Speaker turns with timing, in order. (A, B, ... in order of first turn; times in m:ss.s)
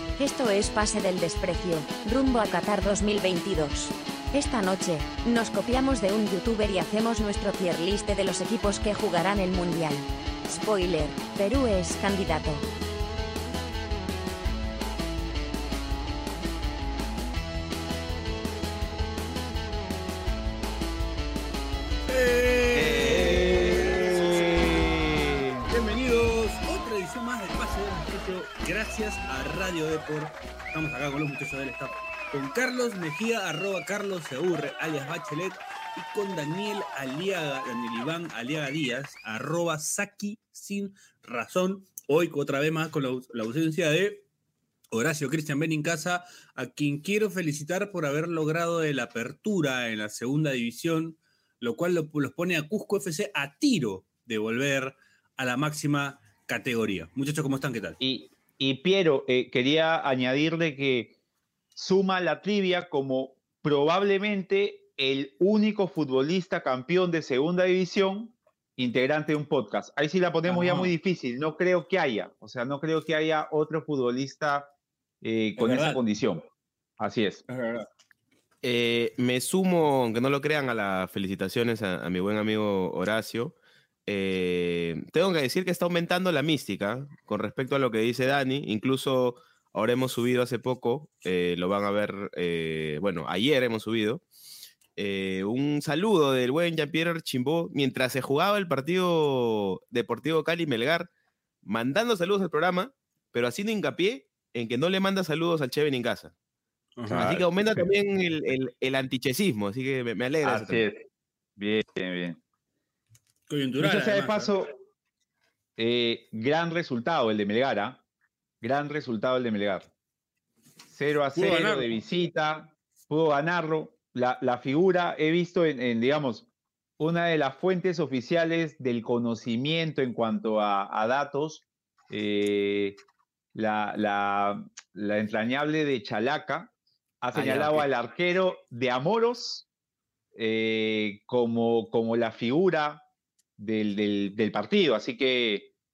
0:00.2-0:12.6 A
0:22.1-0:24.7 B
0:22.7-0:25.5 C
0:25.6-0:44.2 B
0:44.9-0:58.0 B
0:58.0-1:01.1 D
1:01.8-1:14.7 D
1:10.5-1:10.9 B
1:15.2-1:16.4 D
1:15.6-1:16.0 B
1:17.0-1:17.4 D
1:17.5-1:17.8 B
1:18.6-1:23.5 C
1:24.0-1:34.2 C
1:35.0-1:41.1 C
1:41.6-1:46.3 C
1:47.0-1:47.8 B
1:47.1-1:47.4 D
1:47.1-1:50.8 C
1:50.4-1:51.0 D
1:51.6-1:52.4 D
1:53.5-1:54.5 B
1:53.8-1:54.7 D
1:55.8-1:58.0 D
1:58.6-1:59.9 D
2:00.9-2:06.5 D
2:01.3-2:02.0 B
2:07.0-2:13.0 D
2:13.5-2:19.6 D
2:17.4-2:17.8 C
2:17.4-2:17.8 B
2:20.4-2:23.0 D
2:23.6-2:25.7 D